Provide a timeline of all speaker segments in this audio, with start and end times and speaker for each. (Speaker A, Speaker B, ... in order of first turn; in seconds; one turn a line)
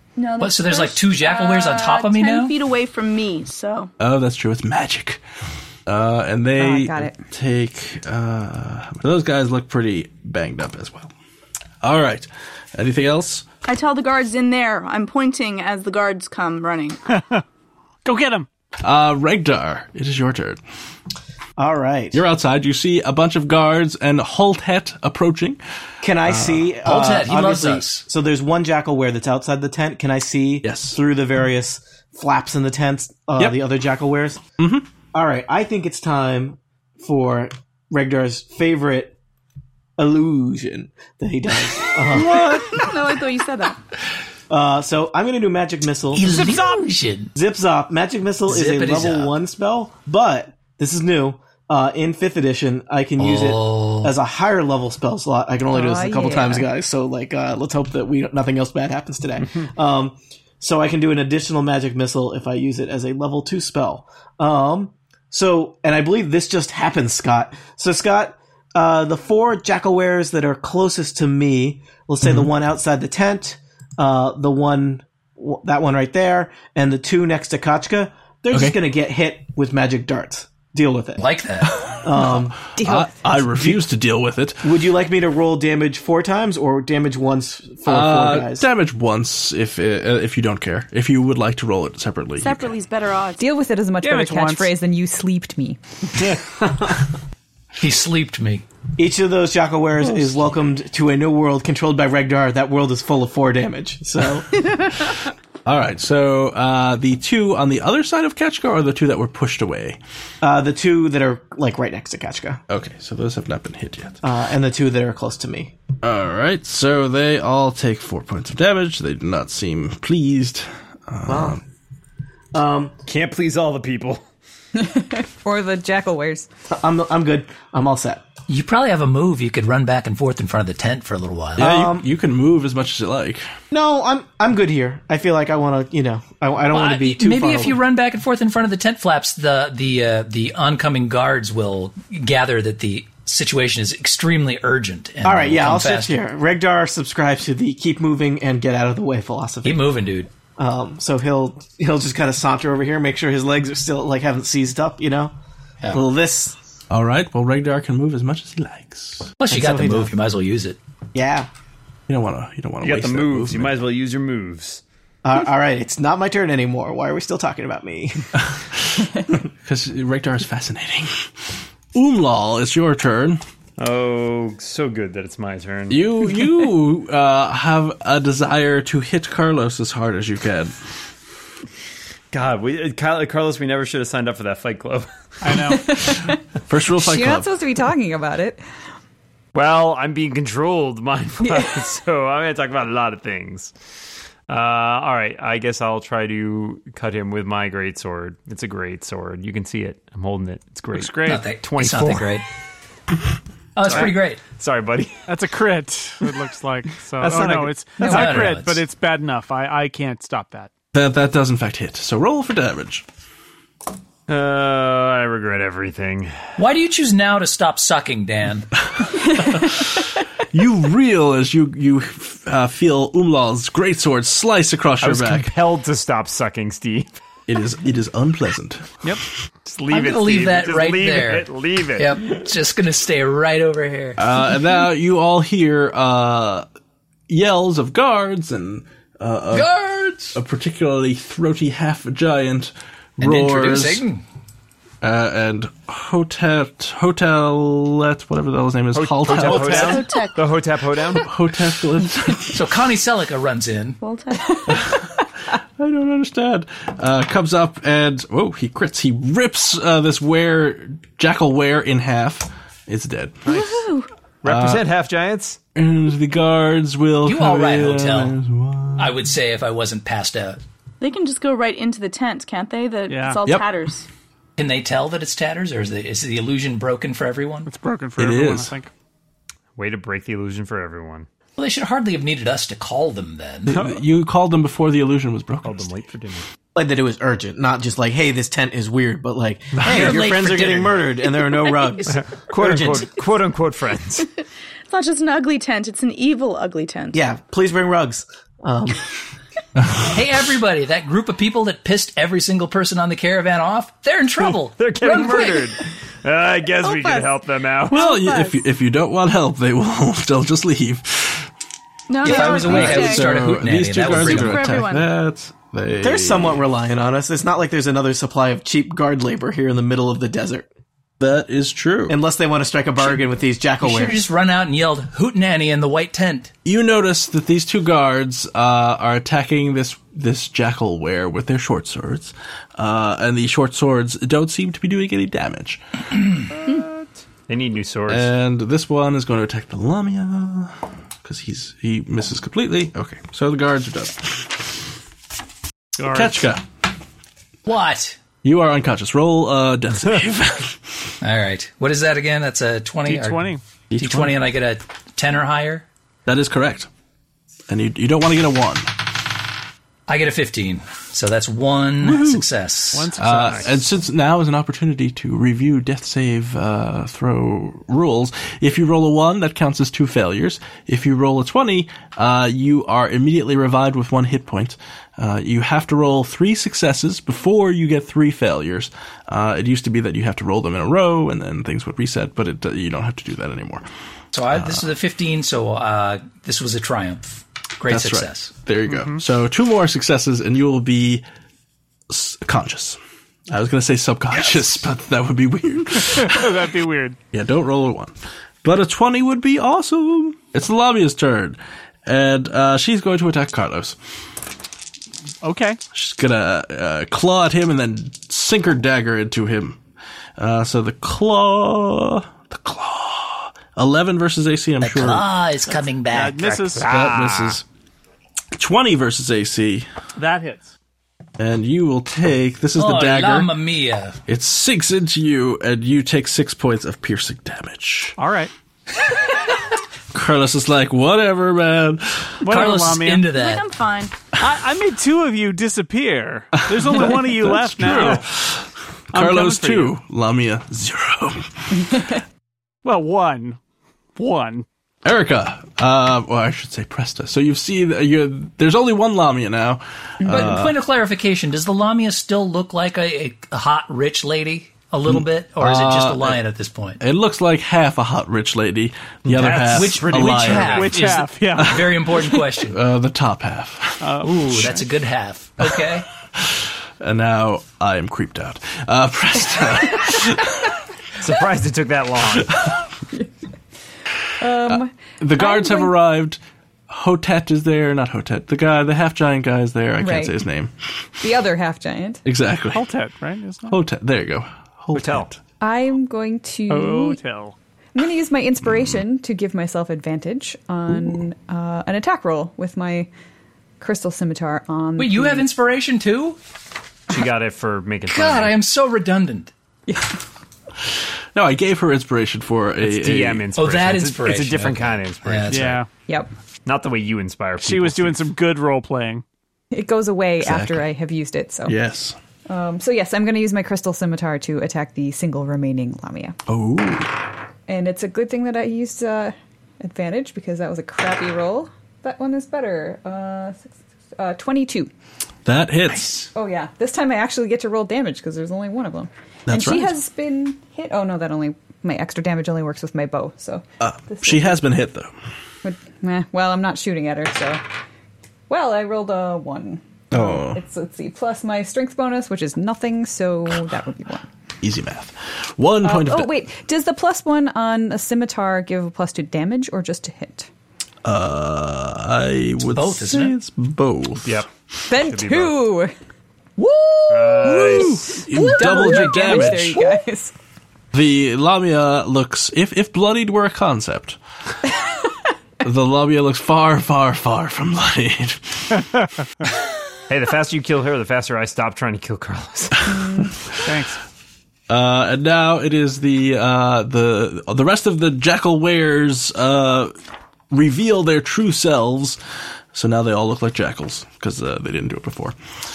Speaker A: 0.2-3.9
Speaker B: 0.4-2.6
Speaker C: 4.0-5.2
Speaker C: 5.8-11.1
Speaker D: 6.6-7.2
Speaker C: 11.8-13.4
Speaker A: 13.6-17.0
Speaker E: 17.1-17.4
Speaker E: 18.0-18.5
Speaker C: 18.8-20.6
Speaker F: 21.6-22.2
Speaker C: 22.1-25.6
Speaker F: 26.0-34.4
Speaker C: 26.2-26.7
Speaker B: 26.8-28.1
Speaker C: 30.6-31.0
Speaker C: 34.6-34.9
Speaker F: 35.1-39.1
Speaker F: 40.0-42.5
Speaker C: 42.1-42.8
Speaker A: 42.3-43.8
Speaker F: 44.5-46.5
Speaker B: 46.1-47.3
Speaker F: 47.3-81.2
Speaker B: 48.5-49.3
Speaker B: 53.2-54.1
Speaker D: 55.7-56.7
Speaker C: 72.2-72.5
Speaker C: 78.5-78.8
Speaker B: 81.2-81.7
Speaker F: 82.0-82.6
Speaker C: 82.2-84.7
Speaker D: 82.7-83.2
Speaker F: 84.6-88.6
Speaker C: 87.8-92.7
Speaker A: 92.4-93.4
Speaker D: 93.4-95.8
Speaker E: 94.0-94.7
Speaker F: 96.6-97.0
Speaker B: 97.8-98.6
Speaker F: 99.0-104.6
Speaker C: 105.7-110.0
Speaker F: 110.4-112.6
Speaker C: 112.7-114.2
Speaker F: 114.2-115.7
Speaker C: 116.0-121.6
Speaker F: 121.3-121.6
Speaker F: 122.5-123.0
Speaker G: 123.0-124.2
Speaker D: 124.8-126.5
Speaker F: 126.7-128.2
Speaker B: 128.5-131.6
Speaker C: 131.6-133.4
Speaker F: 131.6-132.1
Speaker F: 133.7-137.8
Speaker B: 136.7-146.2
Speaker F: 145.2-149.9
Speaker B: 149.6-150.3
Speaker F: 150.6-155.3
Speaker F: 155.9-156.5
Speaker C: 156.9-159.3
Speaker B: 159.4-160.8
Speaker F: 159.5-160.1
Speaker F: 161.1-161.5
Speaker C: 162.1-163.8
Speaker G: 162.8-164.8
Speaker F: 165.2-168.3
Speaker C: 169.6-171.3
Speaker C: 171.9-173.4
Speaker G: 173.8-176.0
Speaker C: 175.9-180.7
Speaker G: 182.3-185.6
Speaker E: 185.4-185.9
Speaker D: 185.7-186.4
Speaker C: 186.7-187.5
Speaker D: 186.9-188.6
Speaker G: 189.5-193.7
Speaker G: 194.5-202.4
Speaker E: 200.9-201.5
Speaker B: 201.2-202.4
Speaker B: 203.8-204.4
Speaker G: 203.8-205.2
Speaker E: 205.3-210.7
Speaker G: 206.9-208.5
Speaker B: 208.0-208.8
Speaker C: 210.9-213.0
Speaker G: 214.3-216.3
Speaker B: 216.6-218.8
Speaker C: 219.4-219.9
Speaker C: 220.5-225.5
Speaker G: 225.0-227.1
Speaker C: 227.5-228.9
Speaker G: 229.7-232.2
Speaker B: 229.9-234.2
Speaker C: 234.2-236.7
Speaker C: 237.3-239.7
Speaker B: 239.5-240.4
Speaker C: 240.3-244.0
Speaker B: 243.2-244.2
Speaker C: 245.0-250.1
Speaker G: 248.9-251.3
Speaker A: 249.3-250.5
Speaker C: 251.2-252.7
Speaker B: 252.5-254.0
Speaker A: 254.0-254.9
Speaker C: 255.8-263.6
Speaker A: 263.4-264.1
Speaker G: 264.4-265.6
Speaker C: 264.4-264.9
Speaker C: 265.7-269.2
Speaker B: 267.2-268.3
Speaker B: 269.0-270.6
Speaker A: 271.0-274.1
Speaker E: 273.1-273.4
Speaker B: 274.6-277.7
Speaker E: 277.6-278.9
Speaker C: 278.2-278.7
Speaker G: 279.8-281.3
Speaker B: 281.6-283.8
Speaker C: 283.7-285.9
Speaker G: 285.6-286.4
Speaker F: 286.7-293.2
Speaker B: 289.8-291.1
Speaker G: 292.1-294.3
Speaker A: 294.9-297.2
Speaker F: 297.1-299.0
Speaker B: 300.0-305.6
Speaker G: 304.5-308.0
Speaker A: 305.1-305.6
Speaker A: 306.8-307.3
Speaker A: 307.8-308.6
Speaker C: 307.9-311.5
Speaker A: 312.1-313.4
Speaker B: 312.2-314.8
Speaker C: 312.2-316.6
Speaker A: 314.0-315.1
Speaker F: 316.0-320.7
Speaker C: 321.2-322.2
Speaker F: 322.1-324.2
Speaker B: 323.8-326.5
Speaker C: 326.6-335.8
Speaker G: 337.5-338.3
Speaker C: 338.1-344.8
Speaker E: 346.0-346.5
Speaker C: 346.0-346.6
Speaker B: 347.6-348.2
Speaker C: 348.4-350.8
Speaker B: 351.2-355.9
Speaker E: 353.0-353.6
Speaker C: 353.9-354.3
Speaker C: 356.2-356.9
Speaker C: 357.7-359.0
Speaker B: 360.1-363.1
Speaker C: 362.0-362.4
Speaker E: 362.9-363.8
Speaker C: 363.2-383.8
Speaker B: 384.3-388.5
Speaker C: 384.5-384.9
Speaker C: 387.9-391.2
Speaker E: 388.9-389.2
Speaker C: 392.1-393.0
Speaker C: 393.5-396.6
Speaker E: 396.0-397.2
Speaker C: 397.3-404.0
Speaker E: 405.4-405.8
Speaker C: 405.9-409.8
Speaker C: 410.4-415.3
Speaker B: 414.8-416.8
Speaker E: 416.1-417.0
Speaker C: 416.8-417.6
Speaker G: 416.9-417.5
Speaker C: 418.5-419.9
Speaker E: 420.1-420.7
Speaker C: 421.4-423.5
Speaker B: 422.8-424.2
Speaker C: 424.3-428.2
Speaker E: 428.2-428.5
Speaker C: 430.1-432.4
Speaker E: 432.4-433.3
Speaker B: 432.4-433.6
Speaker A: 433.3-434.2
Speaker E: 434.3-438.3
Speaker C: 436.7-442.1
Speaker E: 439.1-439.9
Speaker E: 442.8-443.6
Speaker E: 444.1-444.6
Speaker C: 445.0-450.8
Speaker D: 450.2-450.5
Speaker B: 450.2-457.0
Speaker C: 455.1-456.4
Speaker C: 457.0-460.9
Speaker B: 459.3-462.8
Speaker E: 460.0-461.8
Speaker C: 461.6-464.8
Speaker E: 464.0-464.7
Speaker B: 464.2-466.1
Speaker C: 465.6-470.6
Speaker G: 471.2-472.6
Speaker D: 474.4-475.9
Speaker C: 474.7-480.7
Speaker D: 480.0-480.4
Speaker D: 481.2-482.2
Speaker C: 482.2-482.9
Speaker E: 482.7-483.8
Speaker C: 483.7-485.4
Speaker G: 484.9-485.3
Speaker D: 485.6-487.2
Speaker E: 486.7-487.6
Speaker D: 487.9-493.1
Speaker C: 490.9-491.1
Speaker D: 493.8-495.5
Speaker B: 495.0-496.4
Speaker G: 497.1-498.6
Speaker B: 498.1-499.5
Speaker C: 501.3-503.5
Speaker G: 502.8-505.8
Speaker B: 503.5-505.8
Speaker E: 505.5-505.9
Speaker G: 506.6-508.2
Speaker E: 507.6-509.2
Speaker D: 509.7-511.8
Speaker C: 510.4-510.9
Speaker C: 511.6-512.1
Speaker D: 512.5-516.4
Speaker C: 516.5-517.1
Speaker D: 517.7-524.9
Speaker C: 525.4-526.1
Speaker B: 525.9-526.3
Speaker D: 526.3-534.6
Speaker C: 529.5-529.9
Speaker C: 533.8-535.1
Speaker D: 535.6-537.6
Speaker D: 538.5-544.3
Speaker C: 540.1-540.6
Speaker C: 544.6-546.4
Speaker D: 545.8-550.5
Speaker C: 551.0-554.4
Speaker B: 552.7-553.3
Speaker G: 554.2-555.6
Speaker D: 554.9-555.9
Speaker G: 557.1-558.2
Speaker C: 557.4-559.8
Speaker D: 557.4-560.3
Speaker E: 558.7-559.5
Speaker C: 560.9-564.2
Speaker C: 565.6-568.8
Speaker G: 570.1-572.9
Speaker D: 572.9-573.3
Speaker E: 573.6-574.0
Speaker C: 574.7-579.9
Speaker C: 580.5-582.2
Speaker C: 582.7-585.4